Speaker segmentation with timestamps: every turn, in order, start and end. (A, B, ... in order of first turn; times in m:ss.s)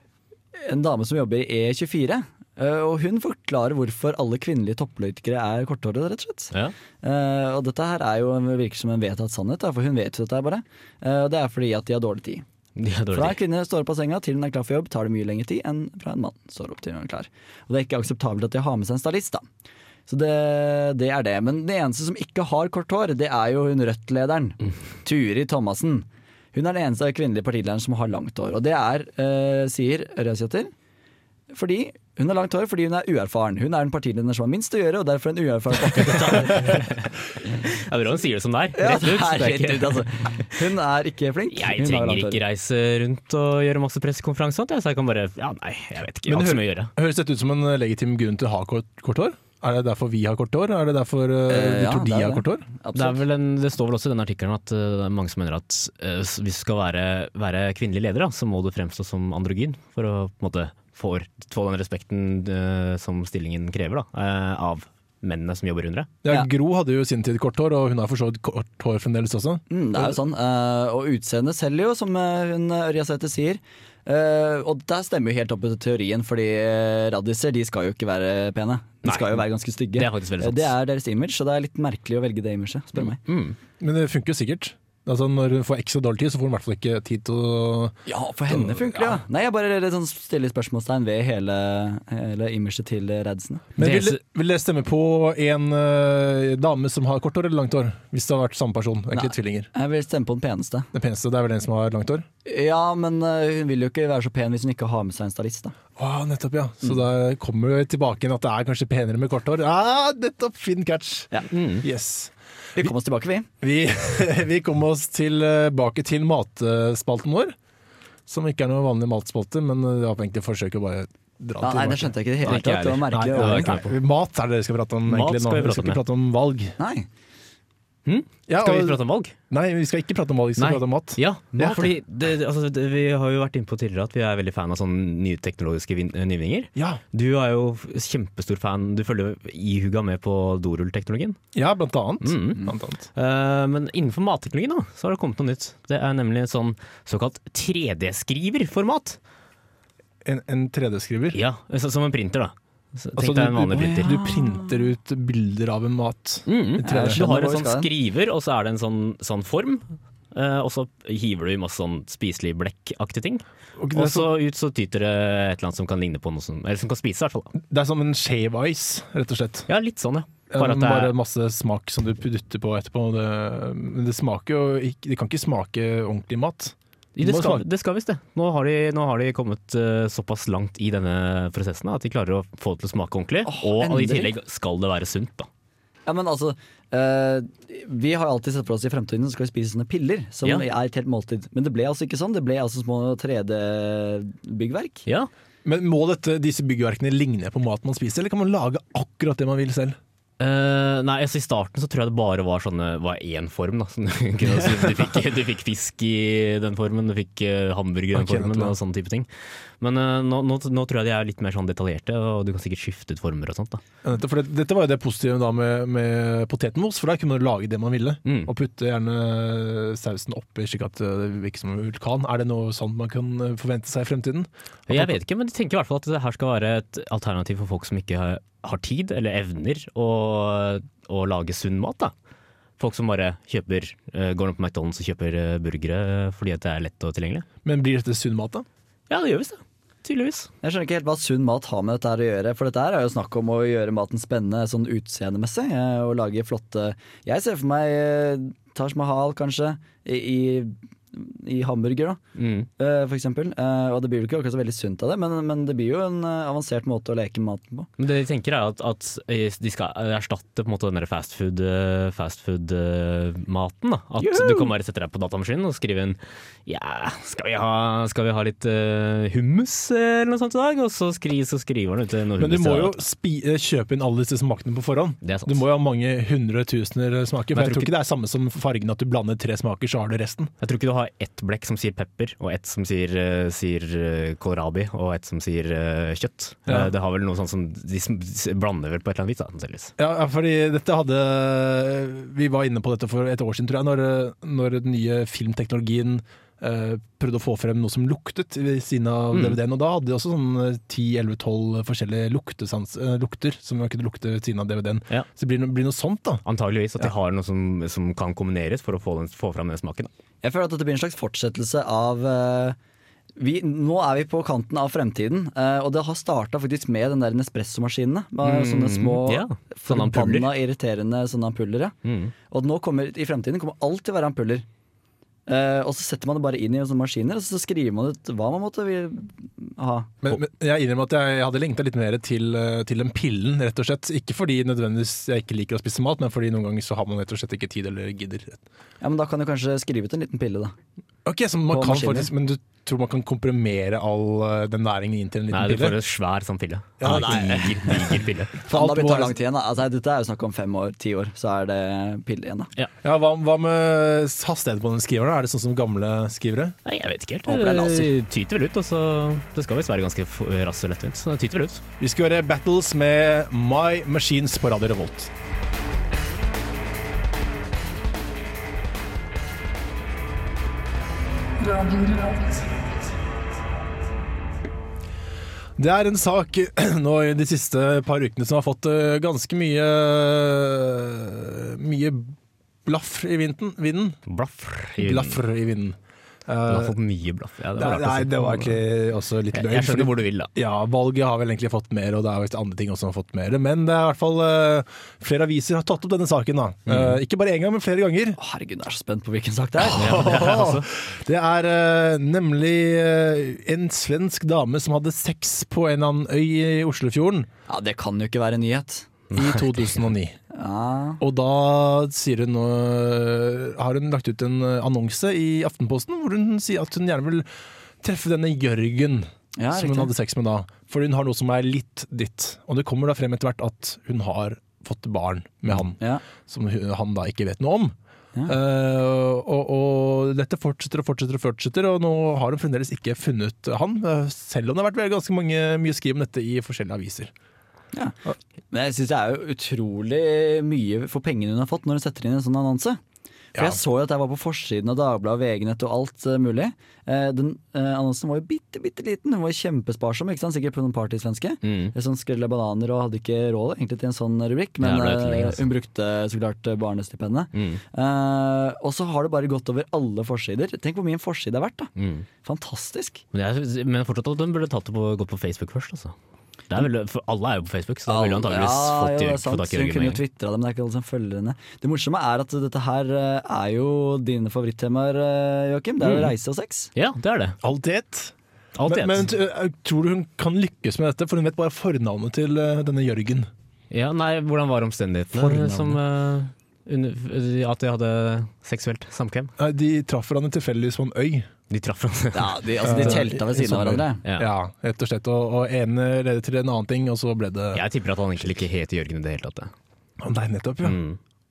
0:00.6-0:12.4 A
0:12.8-0:13.4 B
0:13.1-0:19.4 A
0:20.1-0:30.7 A
0:31.5-0:36.8 A
0:35.9-0:40.6 B
0:38.8-0:42.4 A
0:41.5-0:46.9 B
0:46.3-0:52.7 C
0:51.5-0:53.2 A
0:52.9-1:06.1 B
1:06.2-1:10.2 C
1:09.7-1:23.2 A
1:19.0-1:20.7 B
1:23.0-1:23.6 B
1:23.8-1:29.2 C
1:28.1-1:33.7 A
1:33.8-1:34.2 B
1:33.8-1:39.7 C
1:39.1-1:40.9 A
1:40.9-1:42.3 C
1:42.4-1:45.8 A
1:46.0-1:52.3 C
1:51.5-1:51.8 B
1:52.8-1:53.5 A
1:53.6-1:57.6 C
1:58.3-2:02.2 C
2:01.6-2:03.8 A
2:02.4-2:03.9 B
2:03.1-2:06.8 C
2:05.1-2:06.0 B
2:06.8-2:07.1 A
2:08.1-2:09.3 B
2:08.5-2:11.9 C
2:10.6-2:21.4 B
2:11.5-2:11.8 A
2:16.8-2:17.0 C
2:21.5-2:23.1 C
2:22.2-2:29.2 B
2:30.2-2:31.4 C
2:31.3-2:34.2 B
2:33.2-2:37.2 C
2:33.8-2:34.8 A
2:36.5-2:47.5 B
2:36.8-2:37.9 A
2:43.8-2:44.3 C
2:47.6-2:49.7 C
2:49.7-2:51.1 B
2:50.5-2:57.6 C
2:57.2-3:05.5 B
3:03.5-3:04.3 A
3:06.1-3:15.0 A
3:15.6-3:20.0 C
3:20.4-3:33.8 B
3:28.1-3:28.8 C
3:34.0-3:45.2 C
3:38.2-3:38.5 B
3:44.9-3:52.1 B
3:52.8-3:57.5 B
3:57.6-3:58.6 C
3:59.1-4:00.5 B
4:00.6-4:12.2 A
4:12.4-4:12.7 B
4:12.8-4:17.9 A
4:18.0-4:33.0 B
4:24.2-4:24.7 A
4:32.4-4:40.5 C
4:35.2-4:35.6 B
4:37.5-4:37.9 B
4:40.6-4:49.9 B
4:50.0-5:06.4 C
4:59.3-4:59.6 B
5:06.4-5:10.1 B
5:10.4-5:12.8 A
5:13.4-5:22.0 A
5:18.4-5:20.5 B
5:22.0-5:22.3 B
5:22.5-5:24.7 A
5:25.5-5:30.1 A
5:30.2-5:38.6 C
5:39.0-5:40.8 A
5:41.2-5:46.0 C
5:41.7-5:42.3 A
5:45.5-5:48.6 B
5:47.0-5:49.4 C
5:47.0-5:48.0 A
5:48.7-5:52.7 A
5:53.0-5:56.8 C
5:56.9-6:01.8 B
5:57.5-5:58.1 A
6:02.0-6:05.3 C
6:15.8-6:24.2 C
6:24.3-6:25.4 B
6:25.0-6:26.9 C
6:26.7-6:28.8 B
6:27.8-6:38.4 C
6:29.5-6:30.5 B
6:36.9-6:37.2 B
6:38.4-6:40.4 A
6:39.8-6:47.5 C
6:40.0-6:40.9 B
6:47.7-6:49.1 A
6:49.3-6:49.6 B
6:49.3-6:50.4 C
6:50.5-6:51.2 A
6:51.2-6:57.5 C
6:58.0-7:07.9 C
6:59.6-7:00.1 A
7:06.0-7:06.2 A
7:08.5-7:17.3 C
7:18.7-7:23.0 A
7:23.6-7:41.9 A
7:31.6-7:31.9 B
7:34.8-7:35.6 B
7:37.5-7:37.8 B
7:42.0-7:42.3 B
7:42.4-7:43.2 A
7:43.3-7:46.2 B
7:46.7-7:50.2 B
7:48.1-7:56.9 A
7:56.0-7:56.3 B
7:57.0-7:57.6 B
7:57.6-7:58.3 C
7:58.8-7:59.3 B
7:58.9-8:03.5 C
8:03.9-8:09.5 B
8:05.4-8:06.0 A
8:09.6-8:11.5 C
8:11.7-8:13.2 B
8:12.3-8:14.2 A
8:12.8-8:17.8 C
8:17.7-8:19.7 B
8:20.2-8:21.0 C
8:20.8-8:21.2 B